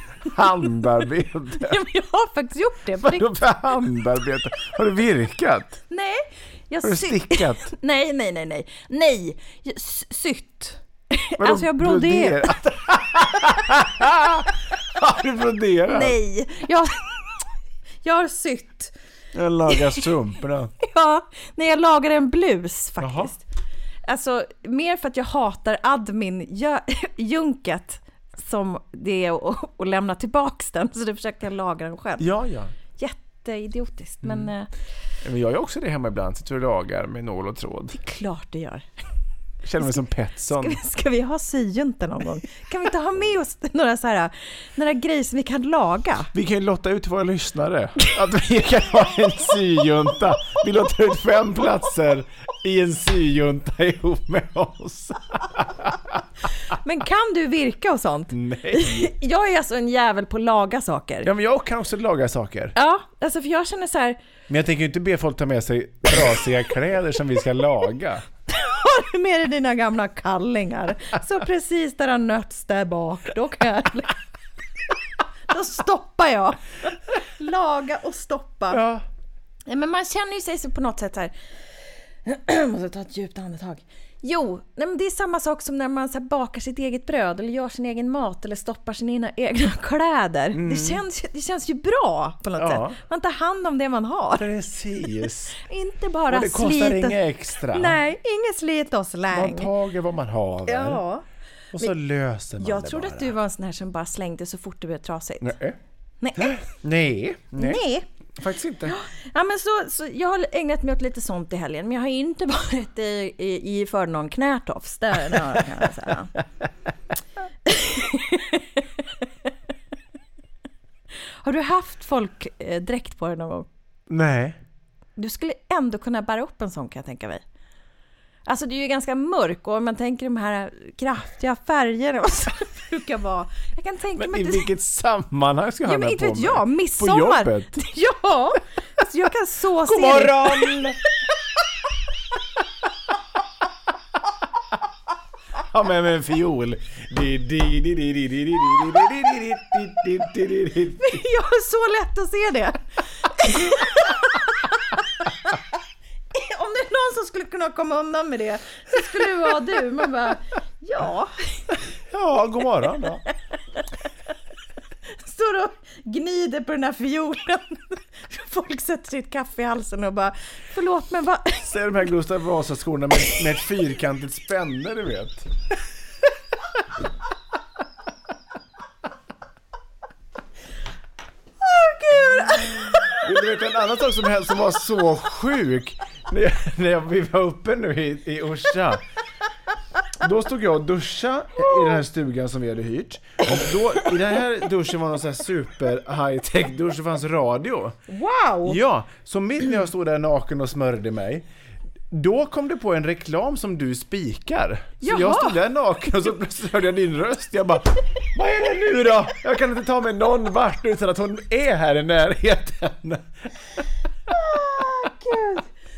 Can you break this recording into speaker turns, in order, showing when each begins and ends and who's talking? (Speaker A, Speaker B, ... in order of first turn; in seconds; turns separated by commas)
Speaker A: 0.3-1.8, Speaker B: 1.6-3.9, Speaker A: 3.0-5.8, Speaker B: 5.9-12.5, Speaker A: 6.8-7.7, Speaker A: 11.4-16.2, Speaker B: 15.9-17.4, Speaker B: 18.0-18.9, Speaker A: 19.3-20.7, Speaker B: 19.7-20.0, Speaker B: 20.8-23.4, Speaker A: 23.0-23.3, Speaker B: 24.1-32.3, Speaker A: 32.2-32.7, Speaker B: 33.0-34.7, Speaker A: 34.2-34.5, Speaker A: 35.2-38.0, Speaker B: 37.9-38.9, Speaker A: 39.6-40.8, Speaker B: 40.5-46.3, Speaker A: 46.3-56.2, Speaker B: 56.7-61.3, Speaker A: 58.3-59.1, Speaker A: 61.2-62.7, Speaker B: 62.7-64.2, Speaker A: 64.5-68.2, Speaker B: 68.5-74.2, Speaker B: 75.5-76.6, Speaker B: 77.2-78.8, Speaker A: 78.7-79.0, Speaker B: 79.7-81.3, Speaker B: 82.2-94.5, Speaker A: 90.5-91.0, Speaker A: 92.6-93.0, Speaker A: 94.3-95.6, Speaker B: 95.6-99.7, Speaker A: 96.3-98.0, Speaker A: 99.3-101.0, Speaker B: 100.7-101.2, Speaker A: 101.7-103.3, Speaker B: 102.6-105.5, Speaker A: 105.4-105.8, Speaker B: 106.2-106.6, Speaker A: 106.3-107.8, Speaker B: 107.6-108.0, Speaker A: 108.4-109.0, Speaker B: 108.9-116.3, Speaker B: 117.7-119.2, Speaker B: 121.4-123.7, Speaker A: 124.1-124.6, Speaker B: 125.2-127.4, Speaker B: 128.4-134.7, Speaker A: 134.2-137.8, Speaker B: 135.8-140.9, Speaker A: 139.8-141.0, Speaker A: 145.6-151.2, Speaker B: 151.0-155.6, Speaker B: 156.3-161.7, Speaker A: 162.1-163.2, Speaker B: 165.2-171.7, Speaker A: 171.6-175.5, Speaker B: 181.6-183.2, Speaker A: 183.1-189.0, Speaker A: 190.2-198.0, Speaker B: 191.6-192.0, Speaker B: 198.1-198.8, Speaker A: 198.6-201.4, Speaker A: 202.1-213.3, Speaker B: 205.0-205.6, Speaker B: 214.3-215.7